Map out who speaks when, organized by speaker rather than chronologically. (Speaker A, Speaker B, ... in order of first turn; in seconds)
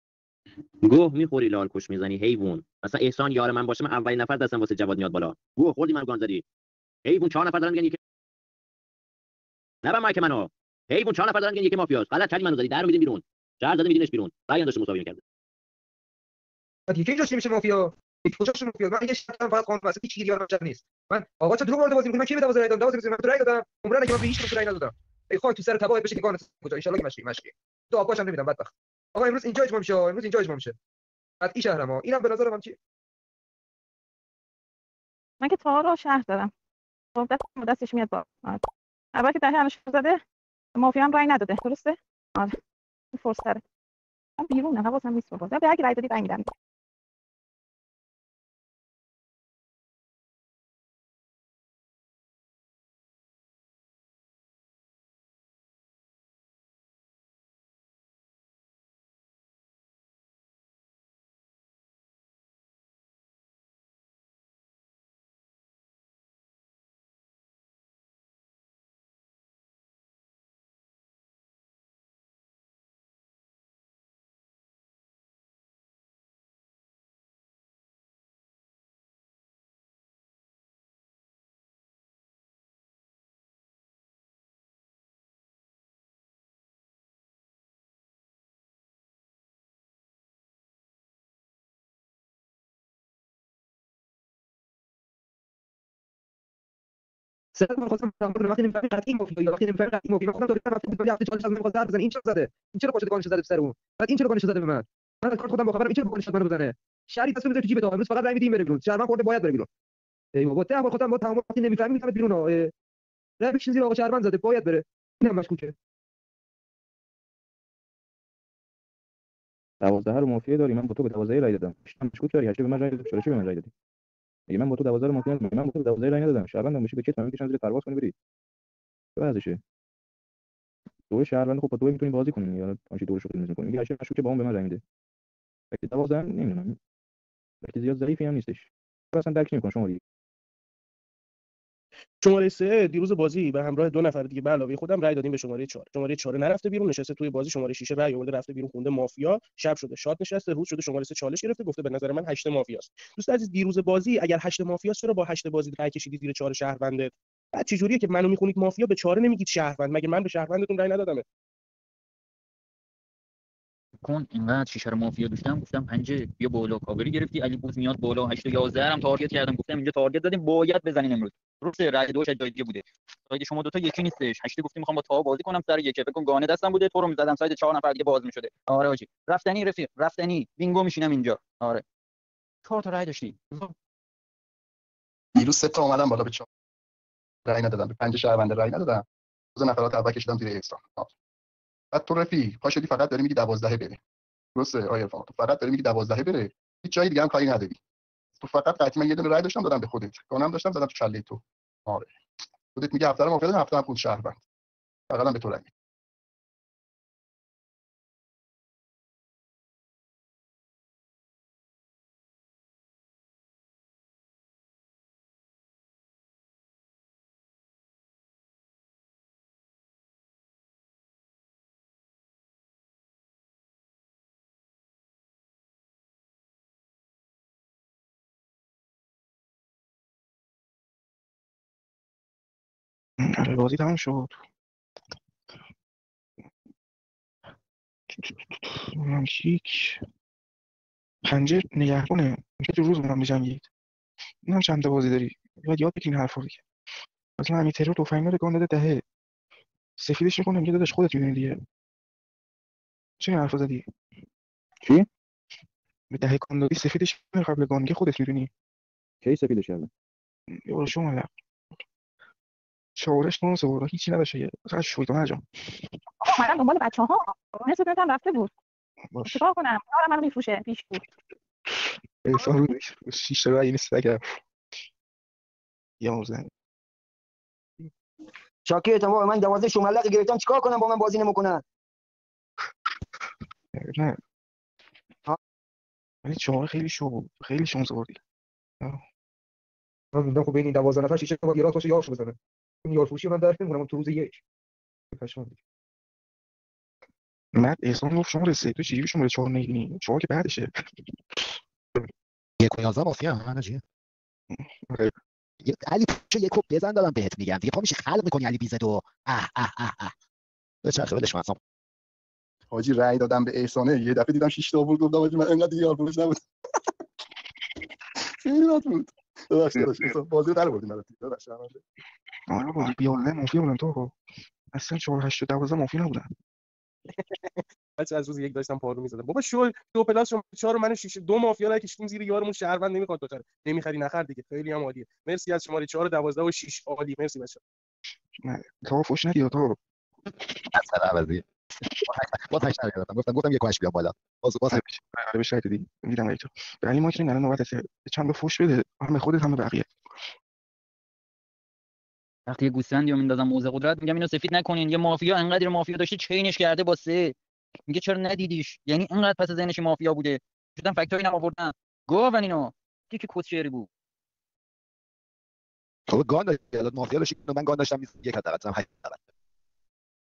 Speaker A: 0.8-6.4, 7.0-8.0, 9.8-15.2
Speaker B: 16.9-30.8, 31.4-32.8, 97.5-109.7, 110.3-112.7, 113.4-115.7, 290.1-294.4, 295.1-295.6
Speaker C: 35.4-36.5, 37.2-38.6, 39.1-40.2, 40.8-42.5, 43.1-43.6, 44.4-46.5, 266.2-268.5, 269.3-271.0
Speaker D: 119.8-123.7, 124.5-128.1, 129.2-129.6, 131.1-134.8, 135.7-136.8, 137.6-140.0, 254.8-255.1, 259.2-259.9
Speaker E: 142.2-161.2, 327.1-337.6
Speaker F: 164.0-181.8, 182.7-183.7, 352.5-357.4, 357.9-363.9
Speaker G: 185.3-186.5, 187.5-189.0, 189.6-191.1, 191.9-194.0, 194.6-197.8, 198.4-202.2, 202.8-204.4, 205.1-205.7, 312.7-316.4, 318.4-321.8
Speaker H: 233.2-234.4, 238.1-240.0, 241.2-243.7, 244.4-246.6, 247.4-249.0, 250.0-251.6, 253.2-253.9, 256.1-258.5, 260.7-261.3, 263.0-265.4, 269.1-269.4, 271.7-274.4, 276.0-276.5, 283.8-284.2, 286.2-288.2, 297.5-300.7, 301.4-302.1, 304.5-305.1, 319.8-320.1, 322.5-324.2, 324.7-326.3, 338.4-339.8, 344.7-349.9
Speaker I: 278.6-281.6
Speaker J: 302.6-303.8, 305.6-310.1, 310.8-311.6, 340.7-344.8, 366.1-369.2